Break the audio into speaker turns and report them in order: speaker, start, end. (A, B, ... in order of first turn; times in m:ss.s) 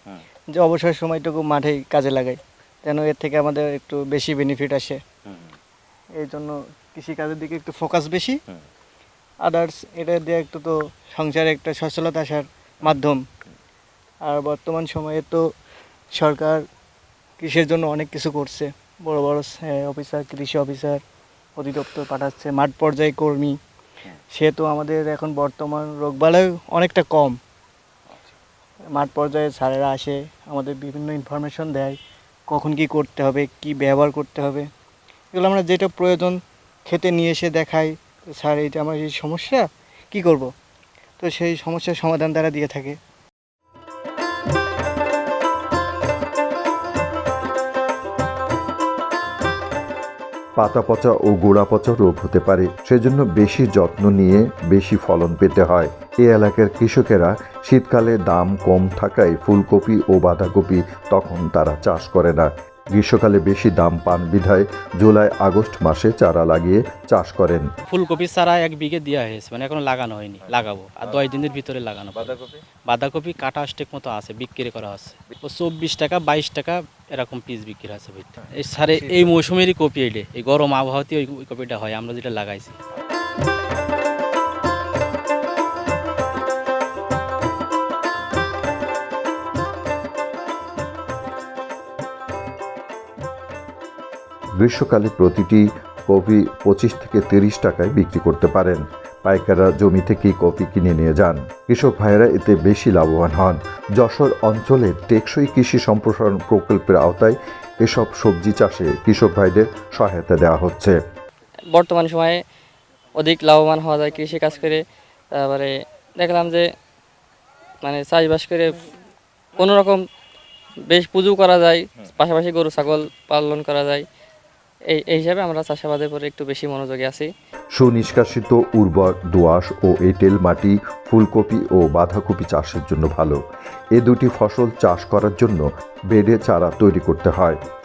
0:00.6-0:05.0 A
0:06.2-0:08.3 A
0:09.4-0:13.2 A
0:14.2-0:15.4 A
0:16.2-0:16.6 A
0:17.4-0:21.0 A
0:21.6-0:23.5 A
0:24.3-0:27.4 A
0:28.9-0:32.0 A
0:32.5-0:34.6 A
0:35.3-0:40.5 A
0:41.2-0:43.0 A
0:50.6-1:07.7 B
1:07.9-1:22.8 C
1:34.6-1:51.0 B
1:51.7-1:52.4 D
1:53.1-1:56.7 D
1:57.8-1:58.8 D
1:59.6-2:00.0 D
2:00.9-2:04.0 D
2:04.9-2:07.3 D
2:07.8-2:13.4 B
2:14.0-2:17.6 B